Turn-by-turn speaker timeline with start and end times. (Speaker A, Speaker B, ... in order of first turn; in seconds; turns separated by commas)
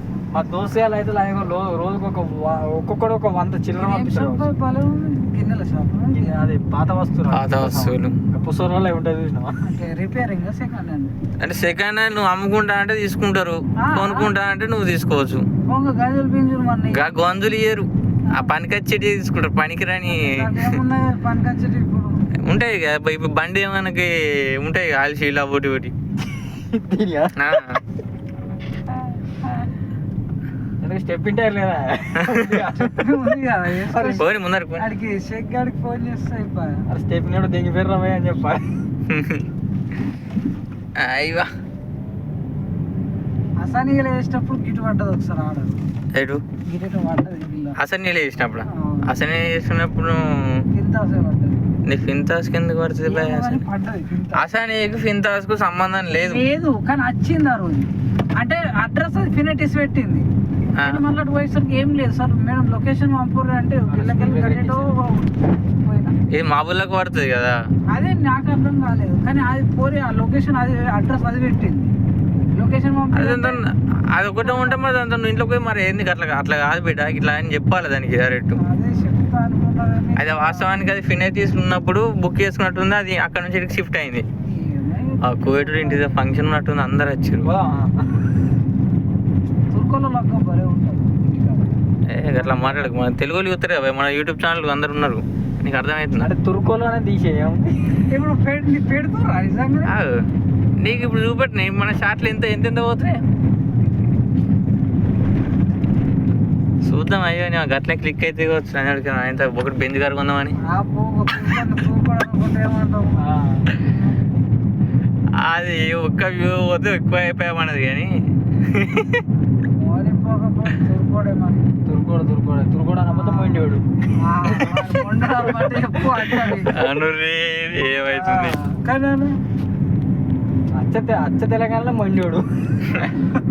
Speaker A: 0.3-4.5, Speaker B: 3.8-6.4, Speaker A: 6.1-9.6, Speaker C: 7.3-8.2, Speaker B: 9.7-11.1, Speaker C: 11.4-15.4, Speaker B: 13.8-14.3, Speaker B: 15.7-17.1, Speaker C: 16.9-20.8, Speaker B: 20.1-22.2, Speaker C: 22.5-25.9, Speaker A: 26.4-27.4, Speaker C: 27.4-27.8, Speaker A: 30.8-33.2, Speaker B: 32.8-34.3, Speaker A: 33.9-34.2, Speaker C: 34.2-34.9, Speaker B: 34.8-36.8, Speaker A: 36.9-38.6, Speaker C: 39.1-39.5, Speaker C: 41.0-41.5, Speaker B: 43.6-45.8, Speaker C: 46.1-46.4, Speaker B: 46.6-47.8, Speaker C: 47.8-50.6, Speaker B: 48.7-49.1, Speaker B: 50.7-51.7, Speaker C: 51.9-53.6, Speaker B: 53.1-54.4, Speaker C: 54.4-56.4, Speaker B: 56.2-60.3, Speaker C: 60.8-61.0, Speaker B: 60.8-66.2, Speaker A: 63.9-64.9, Speaker C: 66.3-67.5, Speaker B: 67.9-71.9, Speaker B: 72.5-73.6, Speaker C: 73.1-78.6, Speaker B: 74.4-74.8, Speaker B: 78.6-80.8, Speaker C: 80.2-84.2, Speaker B: 84.5-86.2, Speaker C: 85.2-87.5, Speaker A: 87.5-88.2, Speaker B: 89.7-91.7, Speaker C: 92.1-96.3, Speaker B: 92.4-92.9, Speaker A: 96.2-97.9, Speaker B: 98.1-99.9, Speaker C: 99.9-100.2, Speaker C: 100.8-103.2, Speaker C: 106.8-110.5, Speaker B: 110.7-113.2, Speaker A: 113.2-113.7, Speaker B: 113.8-114.1, Speaker C: 115.4-118.1, Speaker C: 118.6-119.2, Speaker B: 119.8-121.7, Speaker A: 121.8-123.9, Speaker B: 123.1-126.9, Speaker C: 126.4-128.6, Speaker B: 128.1-129.3, Speaker A: 130.7-132.4